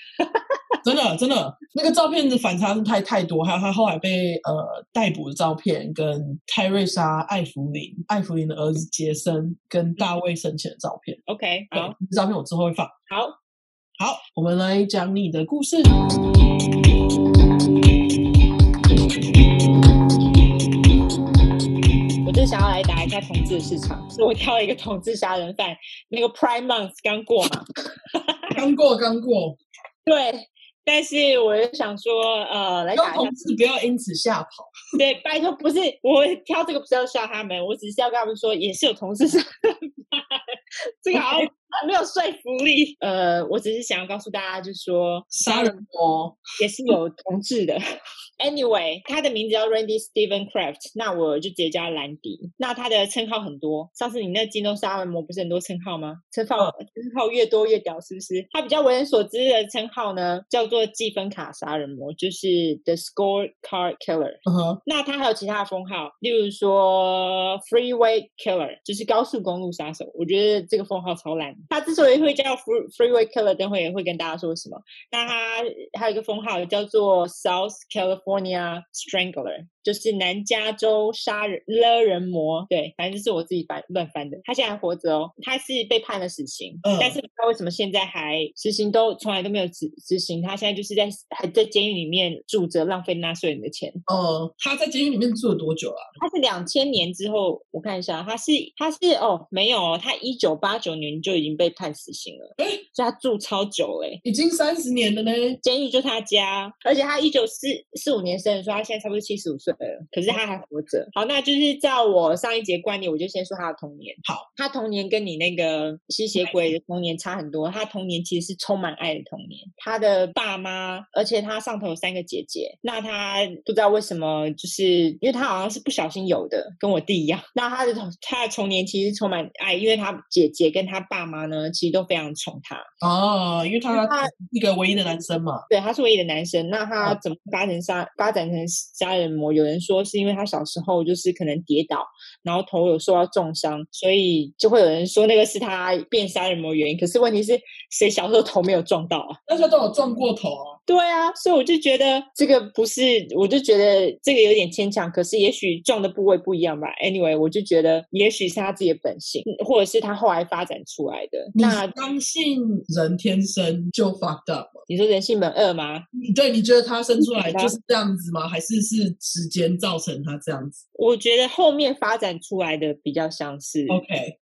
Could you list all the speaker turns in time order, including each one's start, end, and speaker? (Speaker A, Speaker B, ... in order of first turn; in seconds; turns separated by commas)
Speaker A: 0.2-0.8, Speaker B: 0.8-11.2, Speaker A: 11.3-11.9, Speaker B: 11.7-12.9, Speaker A: 13.1-13.4, Speaker B: 14.0-15.9, Speaker A: 22.2-28.5, Speaker B: 28.5-29.6, Speaker A: 30.1-33.4, Speaker B: 32.9-34.7, Speaker A: 35.0-45.8, Speaker B: 41.1-41.5, Speaker B: 45.3-46.9, Speaker A: 46.6-47.8, Speaker A: 48.4-94.0, Speaker B: 64.5-64.8, Speaker B: 86.8-87.2, Speaker B: 94.1-96.1, Speaker A: 96.2-104.2, Speaker B: 104.2-105.6, Speaker A: 105.6-132.9, Speaker B: 133.0-135.6, Speaker A: 133.9-134.3, Speaker A: 135.7-149.4, Speaker B: 149.5-150.8, Speaker A: 150.9-161.9, Speaker B: 161.6-164.8, Speaker A: 164.9-166.0, Speaker B: 166.1-170.8, Speaker A: 167.2-167.7, Speaker A: 170.9-174.0, Speaker B: 173.9-174.4